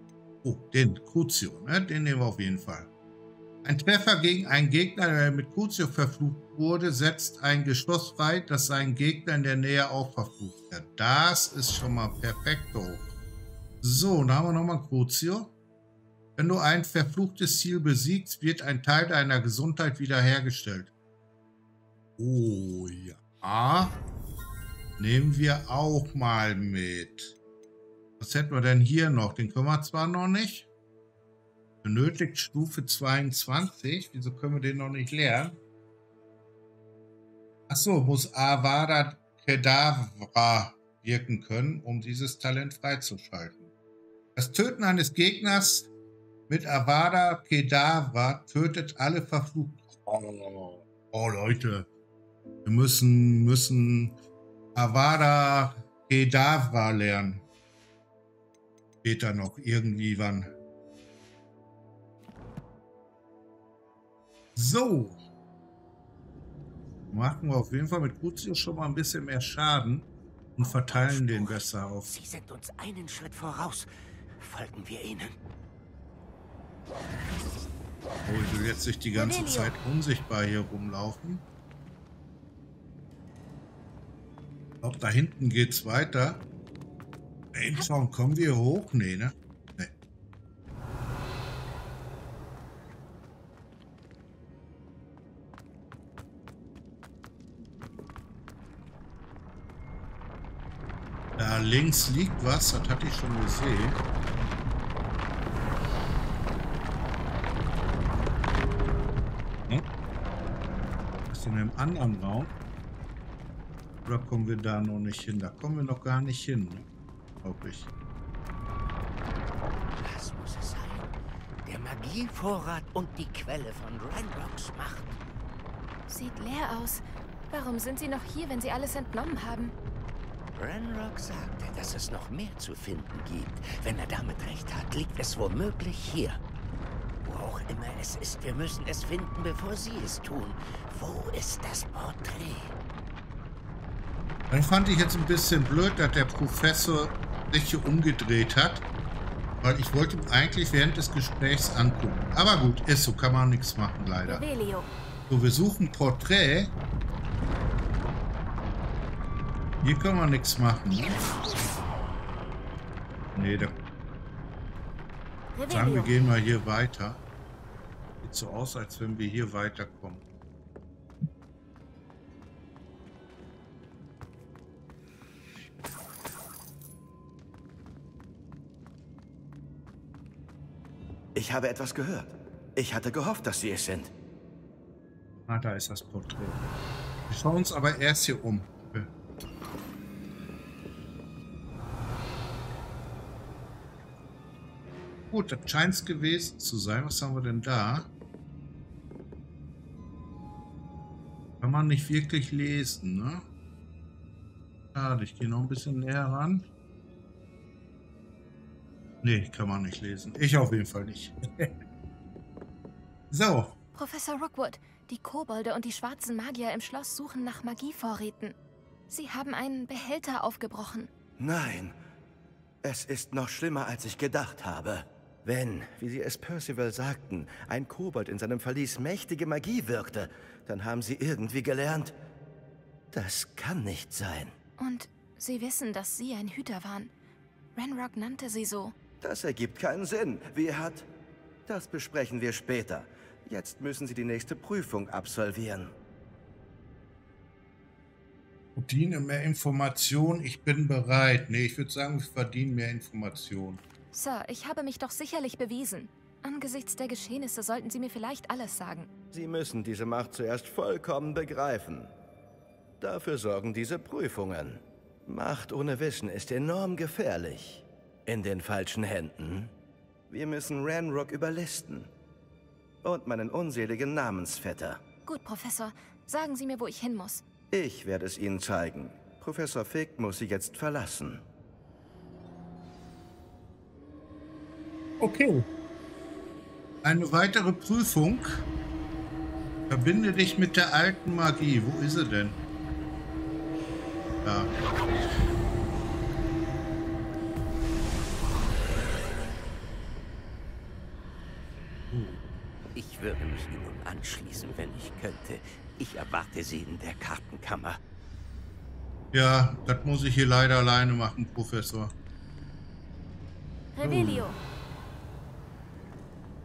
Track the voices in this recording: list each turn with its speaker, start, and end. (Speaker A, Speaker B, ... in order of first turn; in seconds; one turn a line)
Speaker A: 0.4-2.9
Speaker A: 3.6-13.1
Speaker A: 13.8-15.5
Speaker A: 16.4-20.9
Speaker A: 22.2-24.0
Speaker A: 25.0-27.4
Speaker A: 28.2-30.7
Speaker A: 31.8-35.6
Speaker A: 37.7-43.7
Speaker A: 44.4-45.9
Speaker A: 46.5-51.9
Speaker A: 52.6-54.2
Speaker A: 54.7-57.5
Speaker A: 59.0-60.5
Speaker A: 64.5-65.2
Speaker A: 67.1-72.1
Speaker B: 70.6-75.3
Speaker A: 78.2-81.4
Speaker C: 79.1-79.8
Speaker A: 84.8-86.4
Speaker A: 87.5-89.9
Speaker A: 101.4-104.0
Speaker A: 111.3-112.5
Speaker A: 114.0-116.8
Speaker A: 117.4-117.9
Speaker B: 120.0-121.1
Speaker B: 121.7-125.2
Speaker C: 126.1-129.7
Speaker B: 130.5-136.4
Speaker B: 137.2-142.7
Speaker A: 144.5-148.8
Speaker A: 149.6-154.4
Speaker C: 154.2-154.9
Speaker A: 155.3-156.7
Speaker A: 159.8-161.2
Speaker A: 163.3-163.8
Speaker A: 165.7-167.2
Speaker A: 168.2-170.2
Speaker D: 181.3-184.1
Speaker A: 185.4-186.6
Speaker A: 187.3-189.1
Speaker A: 195.3-198.1
Speaker A: 201.6-203.4
Speaker A: 204.9-206.7
Speaker A: 209.2-211.7
Speaker A: 213.3-213.8
Speaker C: 213.9-218.6
Speaker C: 219.1-221.1
Speaker D: 221.4-221.9
Speaker D: 222.8-232.1
Speaker D: 233.1-234.5
Speaker C: 234.8-237.1
Speaker C: 237.8-238.9
Speaker D: 239.2-241.1
Speaker D: 241.7-245.9
Speaker A: 248.8-253.8
Speaker C: 254.1-259.1
Speaker D: 259.3-262.1
Speaker D: 263.0-269.7
Speaker D: 270.3-272.1
Speaker D: 273.0-275.0
Speaker C: 275.2-277.4
Speaker D: 277.7-281.4
Speaker A: 285.2-285.6
Speaker A: 287.0-288.6
Speaker A: 289.9-292.6
Speaker A: 294.4-294.7
Speaker A: 302.1-302.4
Speaker B: 302.9-308.0
Speaker A: 309.3-312.1
Speaker A: 314.0-314.6